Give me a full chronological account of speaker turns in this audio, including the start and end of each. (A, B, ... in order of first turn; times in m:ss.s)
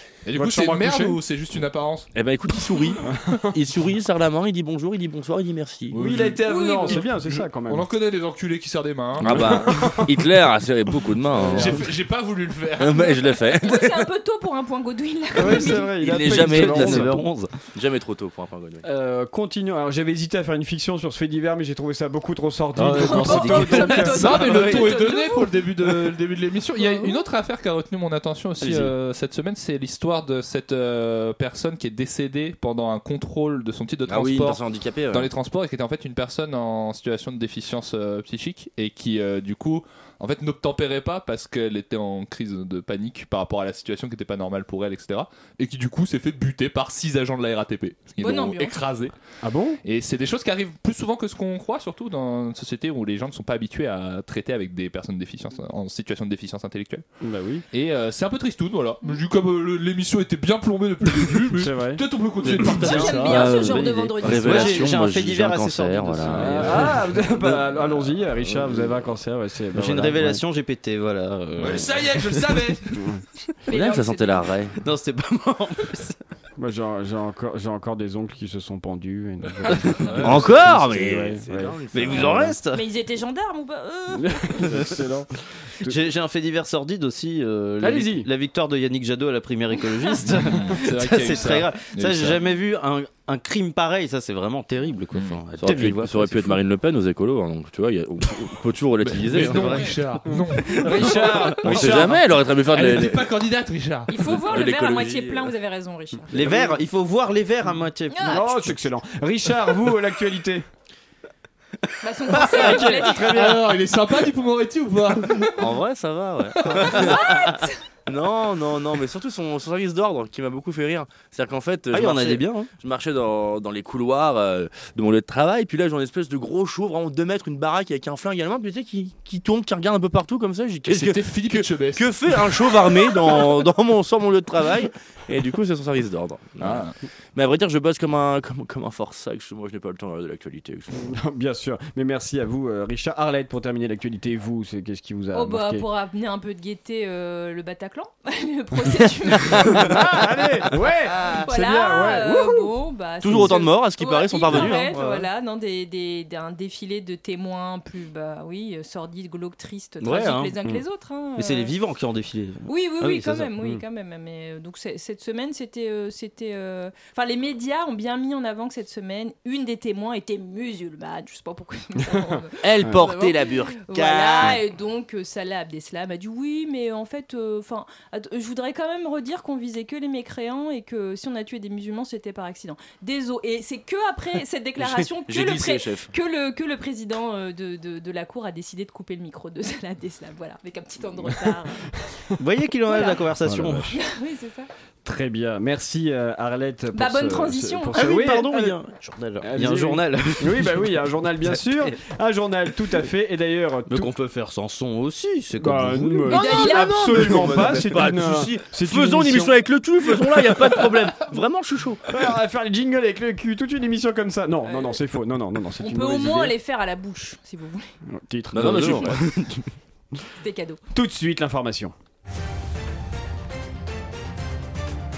0:00.2-0:02.1 A
0:00.4-0:01.2 B
0:02.2-0:06.0 C
0:03.1-0:03.5 B
0:05.9-0:10.0 A
0:06.0-0:07.9 B
0:06.5-0:07.0 D
0:09.2-0:11.8 C
0:09.3-0:10.1 B
0:11.5-0:13.2 A
0:12.8-0:14.1 C
0:13.0-0:15.9 D
0:15.4-0:17.1 B
0:15.4-0:18.8 C
0:16.3-0:17.5 E
0:18.8-0:24.2 B
0:22.8-0:49.1 A
0:23.0-0:25.6 D
0:23.1-0:24.7 E
0:26.8-0:27.2 D
0:28.6-0:28.9 B
0:34.1-0:35.3 C
0:48.2-0:48.8 D
0:49.4-0:49.8 B
0:49.8-0:57.0 A
0:57.2-0:57.6 B
0:57.7-1:03.4 A
1:01.6-1:02.0 B
1:02.5-1:07.0 C
1:02.6-1:06.9 E
1:02.8-1:04.9 D
1:06.3-1:10.4 B
1:09.7-1:12.6 E
1:11.6-1:12.9 A
1:12.9-1:13.2 B
1:13.7-1:14.5 D
1:13.7-1:14.8 C
1:14.8-1:16.2 E
1:16.6-1:22.5 B
1:20.1-1:20.5 A
1:20.1-1:22.6 C
1:21.9-1:22.8 E
1:22.7-1:24.7 D
1:24.1-1:25.3 B
1:25.8-1:36.6 E
1:27.8-1:28.3 B
1:30.3-1:32.4 A
1:35.5-1:40.0 C
1:39.0-1:42.1 A
1:39.4-1:39.8 E
1:40.3-1:42.2 B
1:40.8-1:43.4 C
1:42.7-1:44.2 A
1:44.1-1:46.3 D
1:44.2-1:45.5 C
1:46.3-1:48.7 E
1:48.1-1:48.4 D
1:48.3-1:50.6 B
1:52.0-1:53.3 D
1:52.5-1:53.7 B
1:53.2-1:55.6 A
1:55.6-1:57.5 C
1:57.0-1:57.8 D
1:58.1-2:21.0 C
2:01.9-2:02.7 E
2:10.9-2:12.8 A
2:16.6-2:16.9 A
2:20.9-2:25.8 B
2:25.3-2:29.9 D
2:29.8-2:32.7 B
2:31.3-2:41.7 D
2:33.2-2:35.0 C
2:34.7-2:35.1 E
2:40.0-2:40.6 E
2:41.4-2:43.5 E
2:42.7-3:11.9 D
2:52.6-2:54.6 C
3:04.8-3:06.1 C
3:12.4-3:14.0 E
3:12.9-3:13.3 D
3:13.4-3:13.9 B
3:13.9-3:14.7 D
3:15.0-3:18.7 B
3:16.9-3:18.1 D
3:17.9-3:21.0 E
3:19.4-3:24.1 B
3:21.5-3:21.9 E
3:23.9-3:26.3 E
3:25.6-3:29.5 B
3:26.3-3:27.5 D
3:26.3-3:32.0 C
3:32.1-3:36.5 B
3:35.8-3:37.9 D
3:38.1-3:39.2 B
3:38.5-3:39.6 C
3:40.4-3:40.8 D
3:40.9-3:41.9 B